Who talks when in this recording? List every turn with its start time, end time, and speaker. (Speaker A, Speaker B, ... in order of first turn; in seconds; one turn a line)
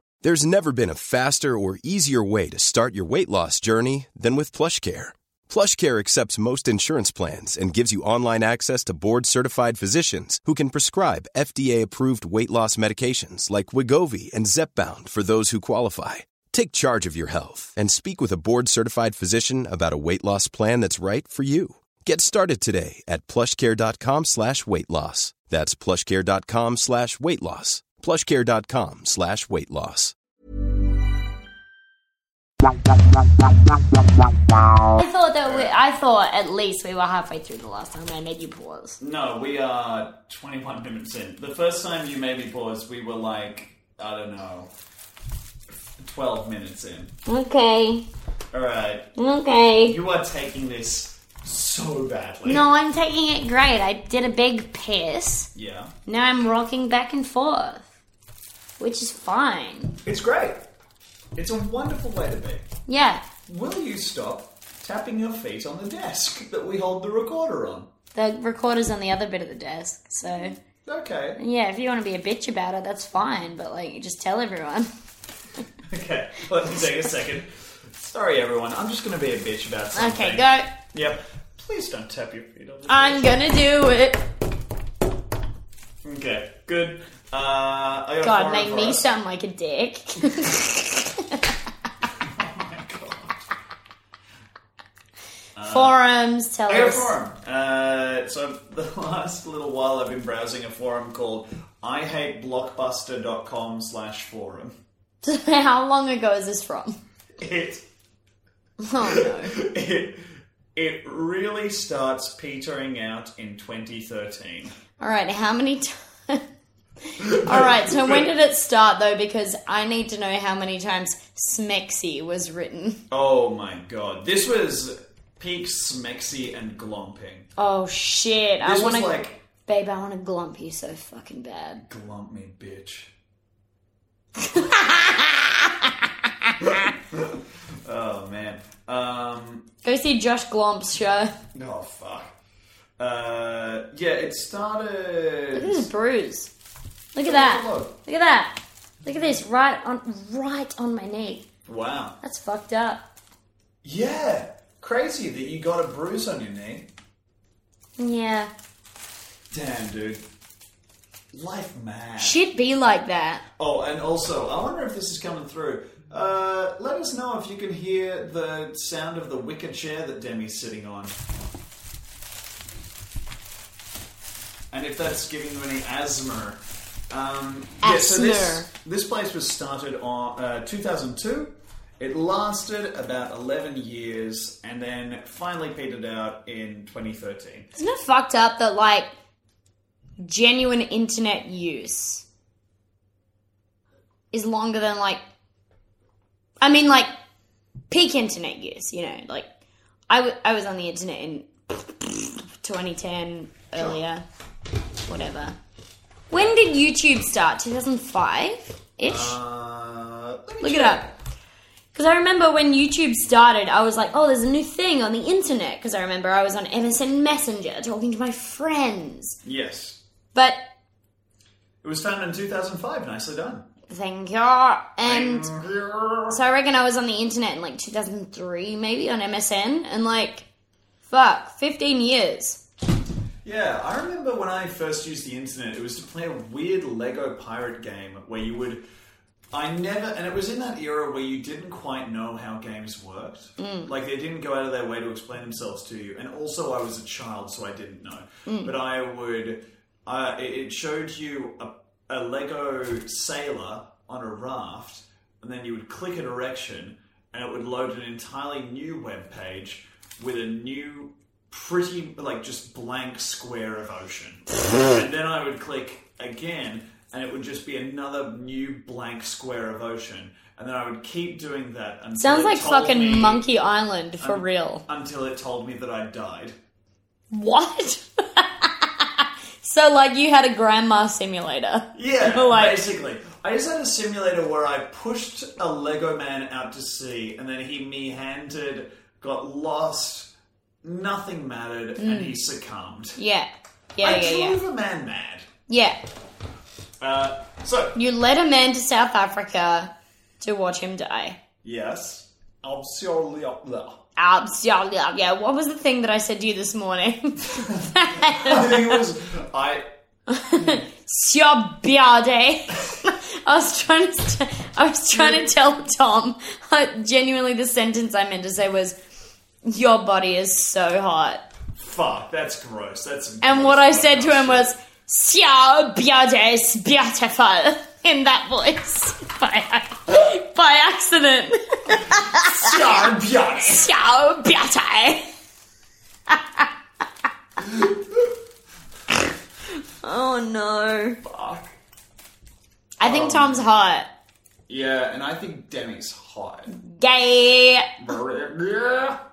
Speaker A: 0.2-30.1
Speaker B: 35.0-39.0
Speaker C: 35.5-35.7
Speaker C: 39.0-44.7
Speaker C: 46.0-47.1
Speaker B: 47.3-48.1
Speaker C: 48.5-49.1
Speaker B: 49.2-50.0
Speaker C: 49.9-52.7
Speaker B: 52.5-55.5
Speaker C: 55.5-55.9
Speaker B: 56.1-57.9
Speaker B: 58.8-60.0
Speaker C: 60.0-60.6
Speaker C: 61.4-62.7
Speaker B: 62.9-63.2
Speaker C: 63.5-67.9
Speaker B: 68.2-70.5
Speaker C: 70.8-71.4
Speaker B: 71.4-74.9
Speaker C: 75.9-83.4
Speaker B: 80.0-80.7
Speaker B: 82.9-84.3
Speaker C: 86.0-89.1
Speaker B: 88.2-91.5
Speaker C: 92.2-93.5
Speaker C: 95.5-96.0
Speaker B: 95.7-97.1
Speaker C: 96.7-104.7
Speaker B: 105.2-107.0
Speaker C: 107.4-107.8
Speaker B: 108.8-109.5
Speaker C: 109.0-114.7
Speaker B: 115.0-116.4
Speaker B: 117.1-123.0
Speaker C: 117.2-118.3
Speaker C: 123.1-127.5
Speaker B: 127.6-131.8
Speaker C: 128.6-129.4
Speaker C: 131.9-133.1
Speaker B: 134.4-136.5
Speaker C: 136.6-139.7
Speaker B: 139.8-141.3
Speaker C: 141.5-142.3
Speaker C: 143.0-145.9
Speaker B: 145.6-146.5
Speaker B: 147.1-151.5
Speaker C: 147.2-148.0
Speaker C: 151.7-152.2
Speaker B: 152.2-153.1
Speaker C: 153.8-156.9
Speaker B: 158.0-158.5
Speaker C: 159.5-160.2
Speaker C: 161.3-162.4
Speaker B: 162.2-163.4
Speaker C: 163.6-171.1
Speaker C: 174.7-187.7
Speaker B: 177.8-178.7
Speaker B: 187.8-189.1
Speaker B: 190.2-192.2
Speaker B: 194.3-195.2
Speaker B: 196.6-197.1
Speaker B: 197.9-199.5
Speaker B: 200.1-204.2
Speaker C: 203.7-204.0
Speaker B: 205.1-205.6
Speaker B: 206.3-209.4
Speaker C: 209.0-211.1
Speaker B: 210.6-211.1
Speaker B: 211.9-219.4
Speaker C: 219.4-220.0
Speaker B: 220.3-220.6
Speaker C: 221.8-223.7
Speaker B: 223.9-225.5
Speaker C: 225.0-226.4
Speaker B: 226.3-230.5
Speaker B: 231.1-232.6
Speaker C: 233.4-238.8
Speaker C: 239.5-273.4
Speaker B: 243.6-243.9
Speaker B: 248.5-248.7
Speaker B: 272.2-274.8
Speaker C: 274.2-276.6
Speaker B: 277.3-282.9
Speaker C: 281.9-290.3
Speaker C: 290.8-293.2
Speaker B: 292.0-292.4
Speaker B: 293.2-294.6
Speaker C: 294.0-295.5
Speaker B: 295.7-296.0
Speaker C: 297.0-298.0
Speaker B: 297.9-301.4
Speaker C: 301.6-304.0
Speaker B: 304.2-309.0
Speaker C: 307.6-309.9
Speaker B: 310.3-319.0
Speaker C: 310.6-310.8
Speaker C: 315.1-315.5
Speaker B: 319.6-321.4
Speaker C: 321.8-324.7
Speaker B: 323.4-332.8
Speaker C: 331.9-333.9
Speaker B: 333.6-335.3
Speaker B: 336.3-336.7
Speaker C: 337.6-338.3
Speaker B: 340.0-341.2
Speaker C: 341.2-341.7
Speaker B: 343.0-344.1
Speaker C: 343.0-343.8
Speaker C: 344.7-346.7
Speaker B: 346.8-348.0
Speaker C: 348.0-349.2